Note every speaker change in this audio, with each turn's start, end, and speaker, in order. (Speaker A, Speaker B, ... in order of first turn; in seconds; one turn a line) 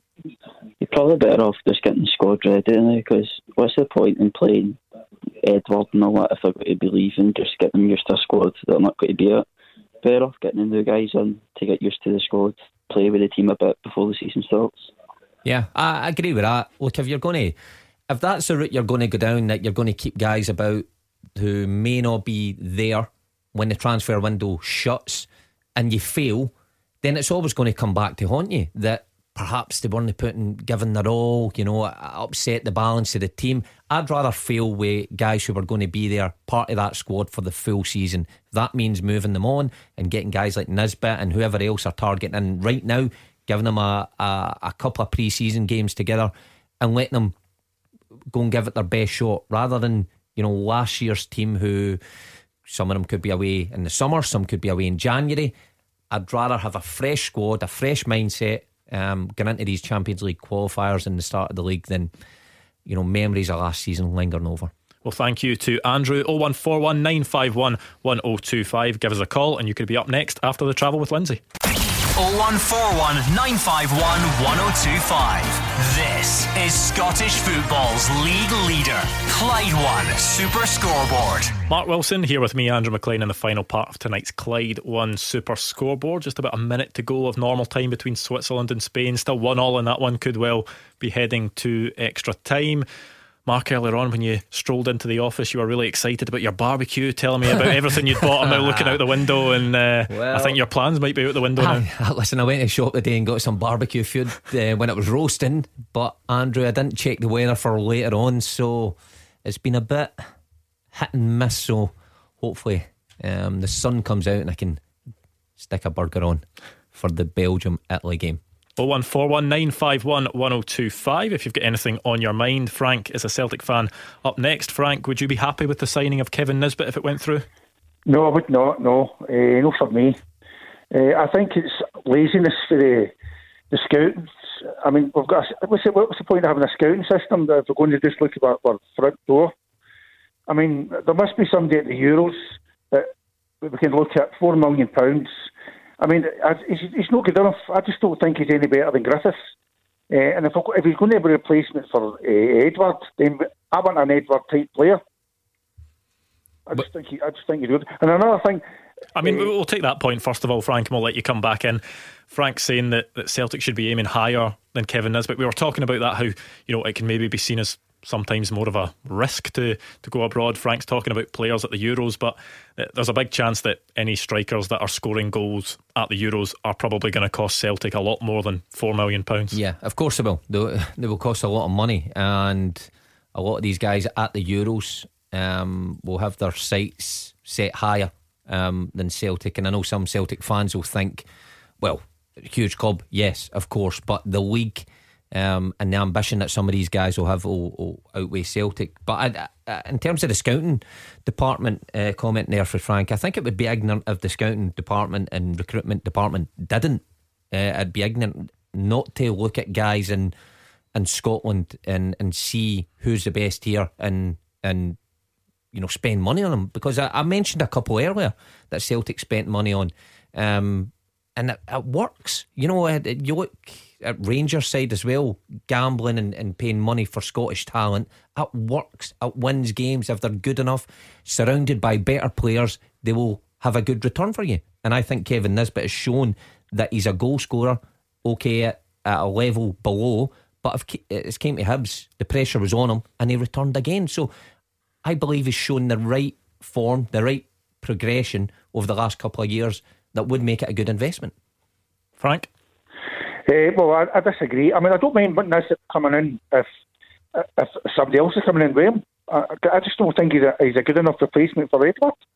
Speaker A: 0.8-4.8
Speaker A: 5.4-9.4
Speaker A: 10.0-14.9
Speaker B: 15.4-17.5
Speaker B: 18.1-20.8
Speaker B: 21.4-47.3
Speaker B: 48.3-52.0
Speaker B: 52.7-55.5
Speaker B: 56.1-62.1
Speaker B: 62.9-64.7
Speaker C: 65.0-71.4
Speaker D: 72.1-81.5
Speaker C: 81.7-92.8
Speaker C: 93.5-101.8
Speaker B: 98.4-99.0
Speaker B: 100.1-100.6
Speaker B: 101.5-110.2
Speaker B: 110.9-114.8
Speaker B: 115.6-116.4
Speaker B: 116.9-118.4
Speaker C: 118.8-127.5
Speaker E: 128.1-130.2
Speaker E: 130.9-133.1
Speaker E: 133.7-139.5
Speaker E: 140.5-143.1
Speaker E: 143.6-145.5
Speaker E: 146.0-149.4
Speaker E: 150.1-155.0
Speaker E: 156.7-158.6
Speaker C: 159.1-179.6
Speaker B: 179.5-191.2
Speaker B: 191.8-210.3
Speaker B: 210.9-215.0
Speaker B: 215.7-244.3
Speaker B: 245.0-251.3
Speaker C: 252.2-252.5
Speaker E: 253.4-256.7
Speaker E: 257.4-262.1